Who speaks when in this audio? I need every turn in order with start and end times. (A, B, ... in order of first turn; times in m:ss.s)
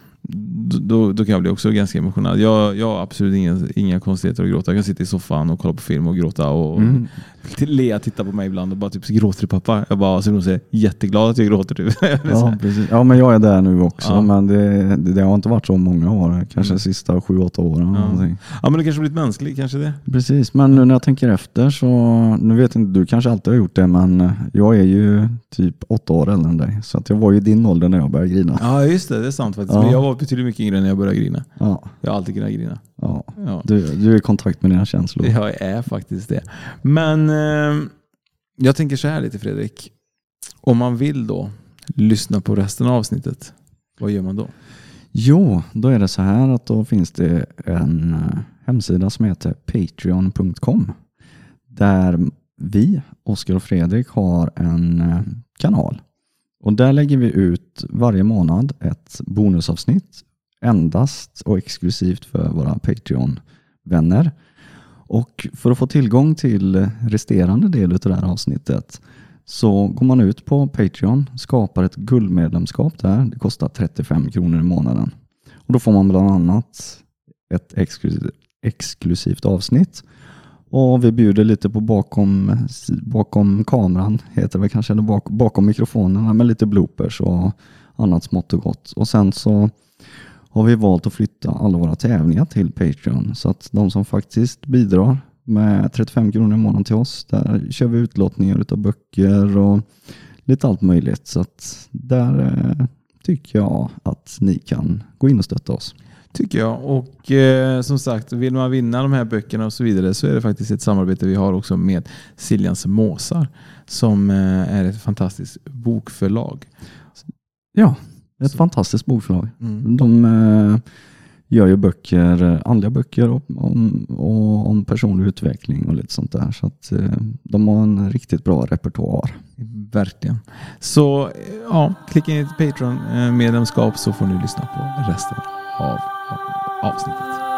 0:00.2-0:12.6 A
0:06.8-0:07.1 B
0:12.3-0:18.4 B
0:14.0-0:14.3 A
0:17.9-0:20.0 A
0:20.1-0:28.7 B
0:28.6-0:31.5 A
0:29.7-0:30.0 B
0:31.6-0:31.9 B
0:32.0-0:32.8 A
0:33.0-0:35.4 B
0:33.4-0:33.7 A
0:35.2-0:37.9 A
0:38.6-0:39.9 A
0:40.6-0:44.5 A
0:45.1-0:51.0 B
0:51.7-0:56.0 B
0:56.6-1:04.3 B
1:05.1-1:15.1 B
1:15.7-1:20.0 B
1:20.7-1:29.7 B
1:30.5-1:39.9 B
1:40.5-1:45.9 B
1:46.3-1:56.7 A
1:57.8-2:00.8 B
1:59.6-1:59.9 A
2:01.5-2:09.4 B
2:09.6-2:17.4 A